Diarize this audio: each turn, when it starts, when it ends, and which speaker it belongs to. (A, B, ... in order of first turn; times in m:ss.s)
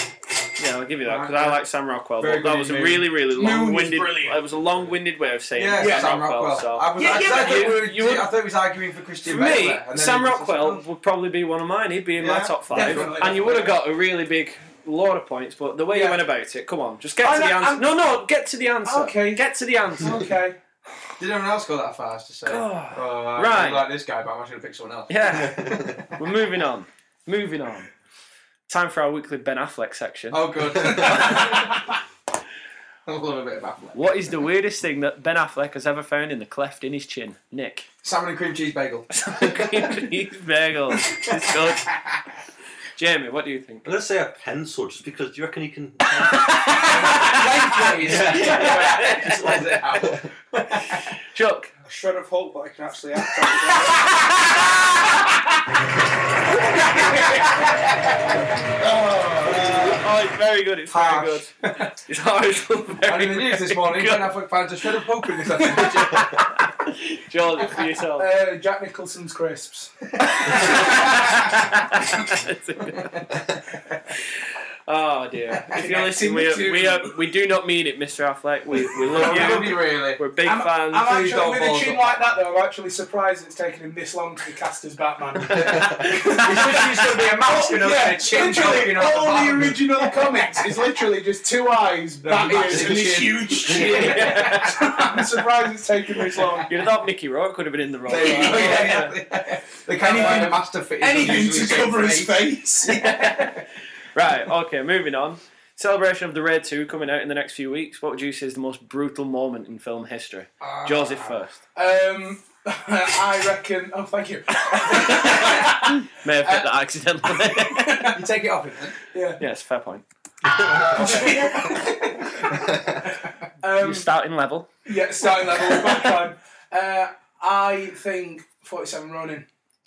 0:00.6-0:08.3 A
0:01.0-0:01.6 B
0:02.2-0:03.2 B
0:03.3-0:04.4 C
0:05.6-0:10.8 B
0:05.8-0:06.2 C
0:07.0-0:08.2 C
0:09.2-0:20.2 A
0:12.2-0:13.6 B
0:12.7-0:13.7 C
0:15.9-0:16.2 C
0:17.2-0:18.0 C
0:18.8-0:19.4 C
0:20.0-0:20.6 C
0:21.2-0:26.0 B
0:22.5-0:23.9 A
0:25.1-0:27.9 A
0:25.3-0:26.0 D
0:28.7-0:31.5 A
0:30.3-0:31.8 B
0:33.1-0:34.1 B
0:33.9-0:37.9 A
0:38.0-0:39.1 B
0:39.1-0:41.9 A
0:43.0-0:44.0 A
0:43.8-0:46.9 D
0:46.4-0:47.4 A
0:46.8-0:50.8 B
0:48.0-0:50.2 D
0:48.1-0:49.6 A
0:51.3-0:51.7 A
0:51.8-0:54.3 E
0:56.8-0:57.5 C
0:58.8-1:00.0 B
0:58.8-0:59.7 C
0:59.5-1:04.4 A
1:00.9-1:01.9 B
1:03.0-1:06.4 B
1:05.7-1:06.2 C
1:05.8-1:08.3 A
1:08.2-1:11.1 C
1:10.5-1:11.0 B
1:10.5-1:13.2 A
1:14.9-1:21.3 A
1:15.7-1:17.2 C
1:18.9-1:20.2 B
1:19.1-1:19.8 C
1:20.4-1:36.8 C
1:21.0-1:22.2 B
1:25.5-1:26.0 D
1:26.1-1:30.7 B
1:32.2-1:35.0 B
1:33.7-1:34.2 D
1:33.8-1:34.9 A
1:36.3-1:36.6 B
1:36.6-1:39.2 A
1:38.1-1:43.6 B
1:38.1-1:39.1 C
1:40.0-1:43.0 C
1:40.1-1:40.6 A
1:42.9-1:51.6 A
1:50.6-1:51.4 B
1:51.8-1:56.6 C
1:54.7-1:58.1 A
1:57.5-1:58.2 C
1:58.1-1:59.0 B
1:59.1-1:59.4 C
1:59.4-2:00.0 A
2:00.5-2:01.4 D
2:00.8-2:02.3 C
2:01.0-2:01.9 B
2:03.6-2:04.1 C
2:03.8-2:04.7 A
2:04.8-2:09.5 C